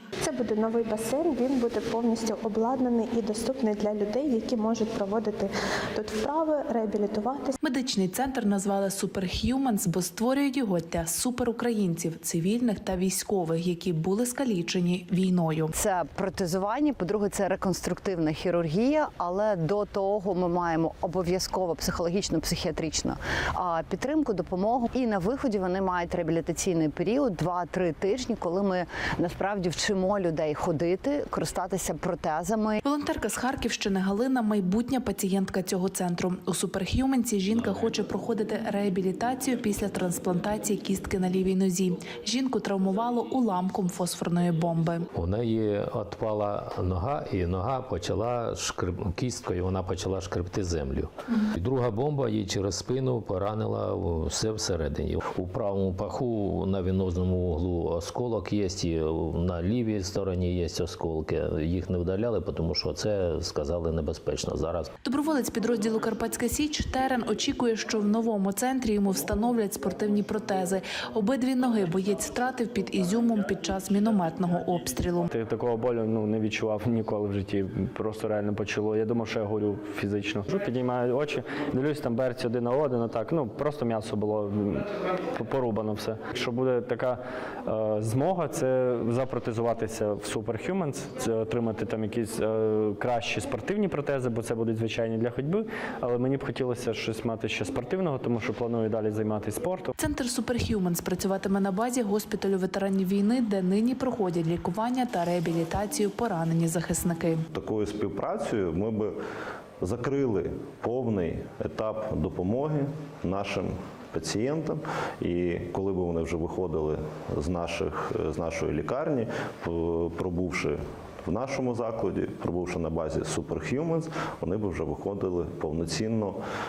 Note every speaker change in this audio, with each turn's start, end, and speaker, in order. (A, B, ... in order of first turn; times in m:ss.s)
0:00.2-0:07.6 A
0:07.6-0:15.7 B
0:15.7-0:32.8 C
0:32.8-0:45.1 B
0:45.2-1:04.9 D
1:05.0-1:15.3 B
1:15.3-1:39.9 E
1:40.0-1:47.4 B
1:47.5-1:49.1 F
1:49.8-2:06.4 F